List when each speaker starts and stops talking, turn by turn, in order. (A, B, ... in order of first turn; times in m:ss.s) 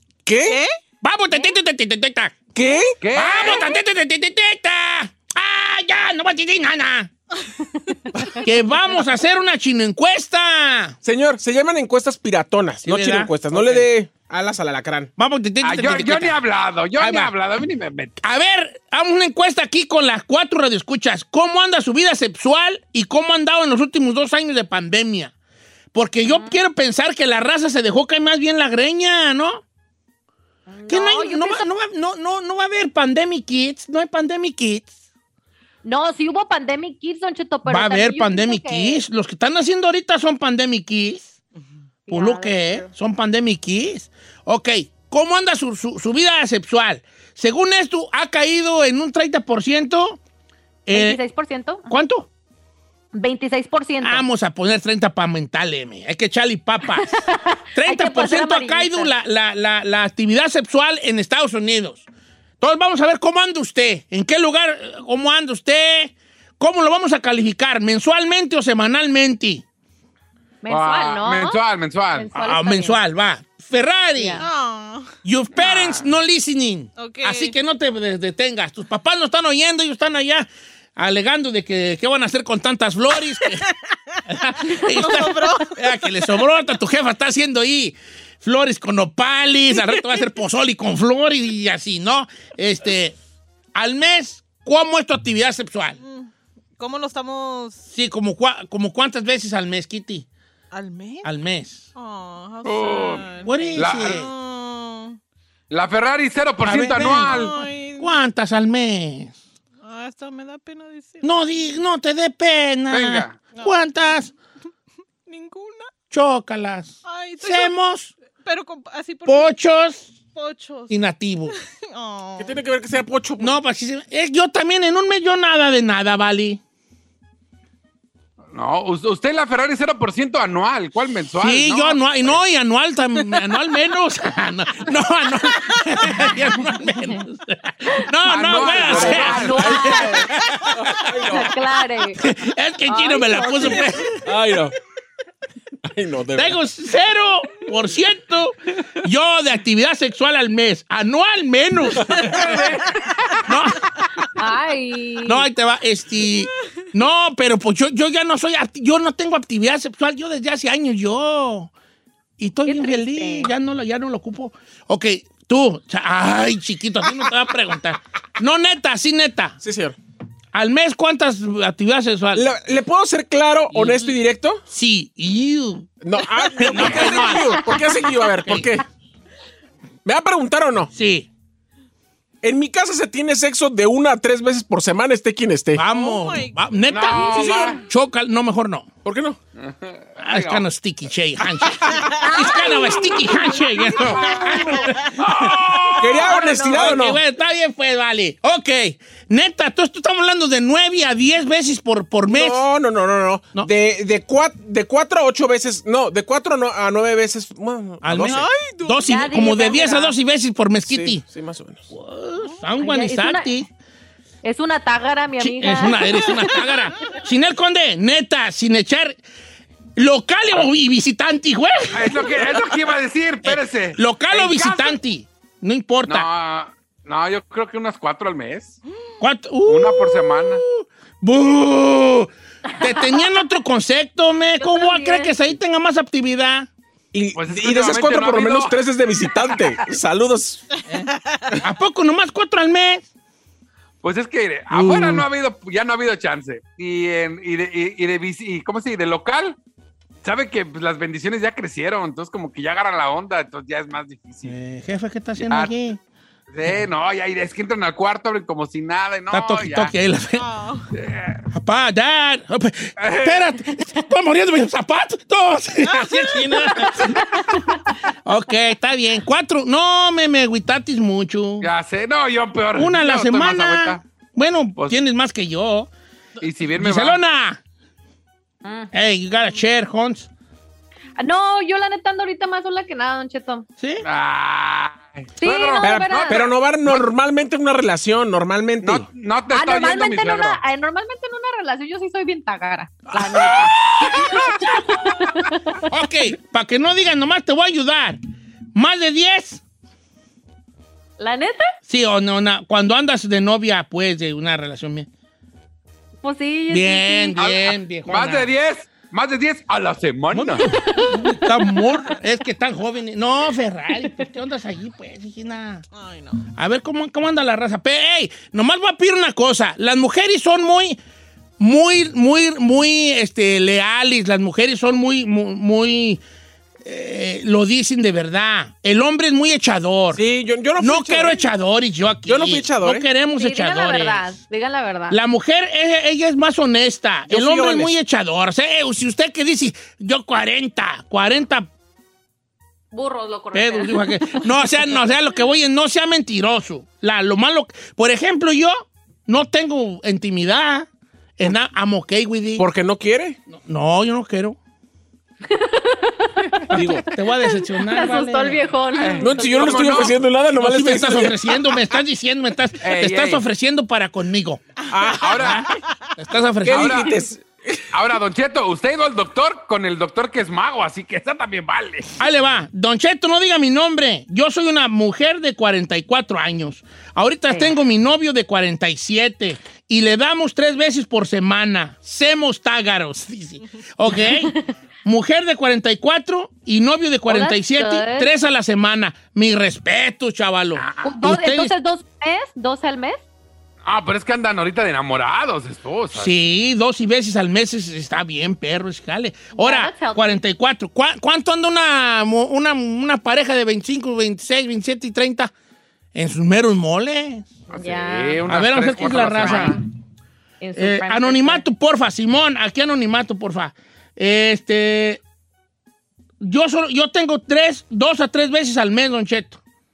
0:00.3-0:00.6 A
0:00.4-0:00.7 B
0:01.0-0:02.4 C
0:02.6-0:03.0 A
0:03.0-0:03.7 D
0:03.1-0:07.1 C
0:08.4-0:11.0 C
0:11.0-0:15.1 A
0:12.8-0:13.9 C
0:15.2-0:16.4 C
0:15.6-0:18.1 D
0:17.0-0:17.3 C
0:18.2-0:25.3 C
0:25.9-0:29.6 C
0:26.2-0:26.6 E
0:30.7-0:31.6 E
0:30.9-0:34.9 C
0:35.8-0:39.0 E
0:37.7-0:41.3 C
0:42.1-0:42.9 E
0:42.1-0:50.2 C
0:50.9-0:51.2 C
0:50.9-0:51.9 E
0:51.9-0:52.3 C
0:53.1-0:54.2 E
0:54.0-0:57.1 C
0:57.0-0:59.1 E
0:57.8-1:02.0 C
1:02.6-1:09.6 C
1:10.6-1:11.6 E
1:10.7-1:12.3 D
1:12.1-1:13.0 E
1:12.4-1:14.4 C
1:14.2-1:14.4 E
1:14.4-1:15.1 B
1:15.2-1:23.6 C
1:15.6-1:16.1 D
1:17.0-1:17.6 B
1:24.3-1:33.2 C
1:24.6-1:25.7 B
1:33.8-1:36.0 C
1:36.0-1:37.8 B
1:37.9-1:40.3 C
1:40.7-1:41.3 B
1:41.2-1:41.8 C
1:41.9-1:45.2 B
1:42.6-1:44.2 D
1:43.4-1:44.3 C
1:45.7-1:47.5 D
1:46.6-1:49.4 C
1:47.1-1:48.1 B
1:49.8-1:51.2 B
1:51.2-1:54.3 C
1:52.9-1:53.4 D
1:53.5-1:53.8 B
1:55.3-1:55.9 B
1:56.1-1:58.1 C
1:57.0-1:57.7 B
1:58.4-1:59.5 B
1:59.3-2:00.1 C
2:00.3-2:00.9 B
2:00.9-2:01.6 C
2:01.7-2:02.6 B
2:02.4-2:03.6 A
2:03.4-2:06.6 C
2:08.5-2:12.4 D
2:11.4-2:21.1 C
2:18.3-2:19.8 D
2:18.8-2:20.3 E
2:18.8-2:20.3 A
2:20.8-2:21.6 A
2:21.3-2:22.2 E
2:22.2-2:24.2 C
2:22.9-2:24.1 E
2:24.2-2:24.8 A
2:25.9-2:26.6 A
2:26.4-2:32.4 C
2:32.2-2:32.7 B
2:32.4-2:32.8 D
2:33.4-2:33.9 C
2:34.4-2:35.5 E
2:35.3-2:41.7 C
2:42.4-2:49.6 C
2:42.6-2:43.5 E
2:49.6-2:50.0 A
2:50.5-2:52.4 C
2:52.4-2:54.6 A
2:53.7-2:54.1 C
2:54.7-2:55.9 C
2:56.0-2:58.8 A
2:56.6-2:57.7 C
3:00.0-3:00.9 A
3:00.9-3:01.3 C
3:02.4-3:05.8 A
3:05.8-3:08.9 C
3:05.8-3:07.5 B
3:06.9-3:07.8 D
3:09.0-3:09.4 A
3:09.6-3:10.6 D
3:10.2-3:22.6 C
3:12.2-3:14.6 E
3:14.3-3:15.1 B
3:15.2-3:16.1 D
3:16.0-3:17.2 A
3:16.3-3:17.0 E
3:22.3-3:28.5 A
3:28.0-3:31.2 C
3:28.3-3:29.1 B
3:29.1-3:30.2 E
3:30.9-3:31.9 A
3:31.9-3:33.7 C
3:32.8-3:33.5 E
3:34.4-3:36.5 E
3:35.4-3:39.2 C
3:40.0-3:42.3 C
3:41.9-3:45.0 D
3:43.4-3:46.3 C
3:46.1-3:48.8 D
3:49.2-3:56.7 C
3:49.6-3:50.6 D
3:52.8-3:53.3 E
3:54.6-3:55.4 E
3:57.1-4:00.6 A
3:57.4-3:58.8 D
4:01.6-4:03.1 C
4:04.0-4:09.6 D
4:04.7-4:05.2 C
4:10.2-4:14.6 D
4:14.4-4:16.0 C
4:15.4-4:15.7 D
4:16.5-4:19.9 D
4:19.3-4:20.4 C
4:20.4-4:20.9 B
4:20.9-4:21.4 D
4:21.5-4:27.6 C
4:23.0-4:23.6 D
4:28.2-4:31.7 C
4:31.6-4:34.0 D
4:32.8-4:35.9 C
4:36.4-4:37.2 D
4:36.8-4:37.6 C
4:38.6-4:38.9 E
4:38.9-4:40.3 C
4:41.2-4:43.6 E
4:43.8-4:44.0 C
4:44.0-4:47.1 D
4:45.4-4:46.4 E
4:45.8-4:49.1 A
4:48.8-4:50.6 D
4:49.5-4:55.8 E
4:53.1-4:54.6 D
4:55.9-4:58.2 C
4:58.8-4:59.6 C
5:01.2-5:01.7 E
5:01.9-5:05.1 C
5:06.2-5:07.4 E
5:06.7-5:08.5 C
5:07.4-5:10.7 D
5:10.3-5:15.8 C
5:10.8-5:11.3 E
5:15.9-5:16.4 B
5:16.6-5:21.0 C
5:21.6-5:26.2 C
5:26.8-5:30.2 C
5:30.1-5:31.4 A
5:30.8-5:34.4 C
5:32.3-5:33.1 A
5:33.4-5:35.2 E
5:35.1-5:41.7 C
5:37.3-5:37.9 A
5:42.9-5:44.6 E
5:43.5-5:50.9 C
5:51.4-5:52.6 C
5:52.6-5:53.4 A
5:53.5-5:54.6 C
5:55.5-5:59.7 E
5:56.7-5:58.6 C
5:56.7-5:57.0 A
5:59.0-6:00.2 D
5:59.2-6:01.6 A
6:00.6-6:04.6 C
6:02.8-6:03.4 D
6:04.9-6:05.6 A
6:05.2-6:05.6 D
6:05.4-6:07.1 C
6:06.6-6:07.9 A
6:06.7-6:07.2 D
6:07.9-6:12.1 D
6:12.2-6:31.7 C
6:27.3-6:28.3 E
6:30.8-6:31.2 D
6:31.0-6:33.2 E
6:33.9-6:36.3 D
6:36.1-6:45.5 C
6:39.6-6:40.3 E
6:46.1-6:47.5 C
6:47.7-6:49.8 D
6:47.7-6:48.4 E
6:48.5-6:49.8 C
6:49.2-6:49.8 E
6:50.6-6:51.6 E
6:50.8-6:55.2 C
6:56.4-6:59.6 C